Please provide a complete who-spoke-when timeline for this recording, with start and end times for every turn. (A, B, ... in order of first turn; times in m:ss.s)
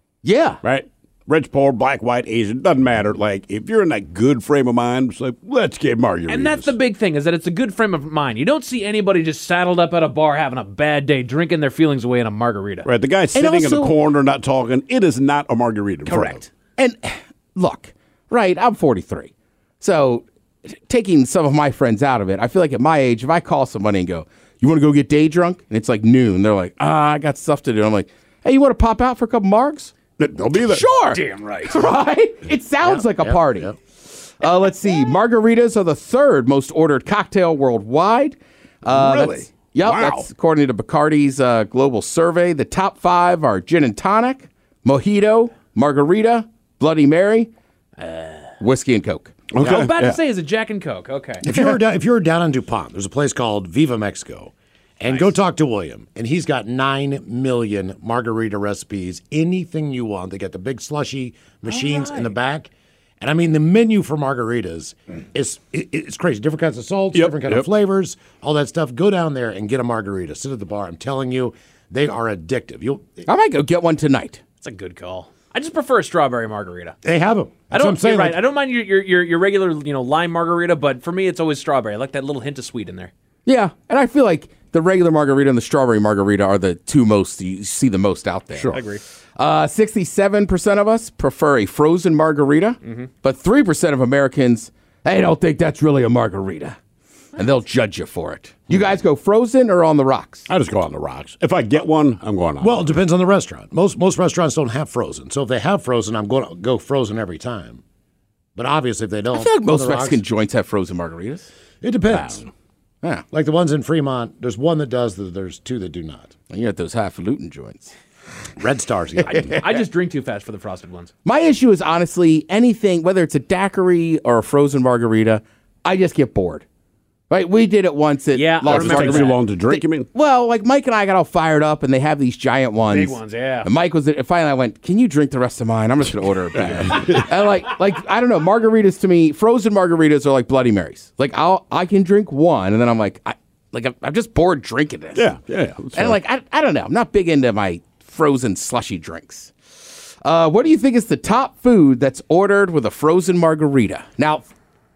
0:00.2-0:00.6 A
0:00.6-0:06.7 B
0:06.3-0:12.9 C
0:12.8-0:16.4 B
0:13.3-0:14.0 A
0:16.1-0:16.4 C
0:16.8-0:29.9 A
0:30.2-0:30.8 B
0:30.7-0:33.7 A
0:31.1-0:31.8 C
0:32.8-0:33.7 D
0:34.4-0:47.5 A
0:38.8-0:40.3 B
0:48.0-0:48.5 C
0:48.6-0:49.4 A
0:49.5-0:50.2 B
0:49.6-0:51.5 C
0:51.4-1:02.7 D
0:55.1-0:55.4 C
1:01.6-1:02.4 C
1:03.2-1:13.2 D
1:07.1-1:07.7 B
1:13.2-1:14.4 A
1:14.6-1:17.0 C
1:17.0-1:18.4 D
1:17.7-1:23.1 C
1:23.4-1:28.7 A
1:28.5-1:28.8 B
1:28.7-1:29.0 C
1:29.4-1:36.8 A
1:32.8-1:33.1 C
1:37.4-1:40.5 A
1:40.5-1:43.0 B
1:42.6-1:47.8 D
1:48.6-1:50.2 D
1:49.3-1:51.5 A
1:51.8-1:52.4 D
1:52.1-1:52.4 B
1:53.3-1:56.3 D
1:56.5-1:57.9 A
1:58.6-1:59.6 D
1:59.3-2:01.1 C
2:01.2-2:06.6 A
2:07.3-2:25.3 A
2:08.3-2:09.4 C
2:08.6-2:10.1 B
2:12.8-2:13.7 C
2:16.6-2:17.3 B
2:25.1-2:26.2 B
2:25.9-2:29.5 A
2:30.2-2:34.5 A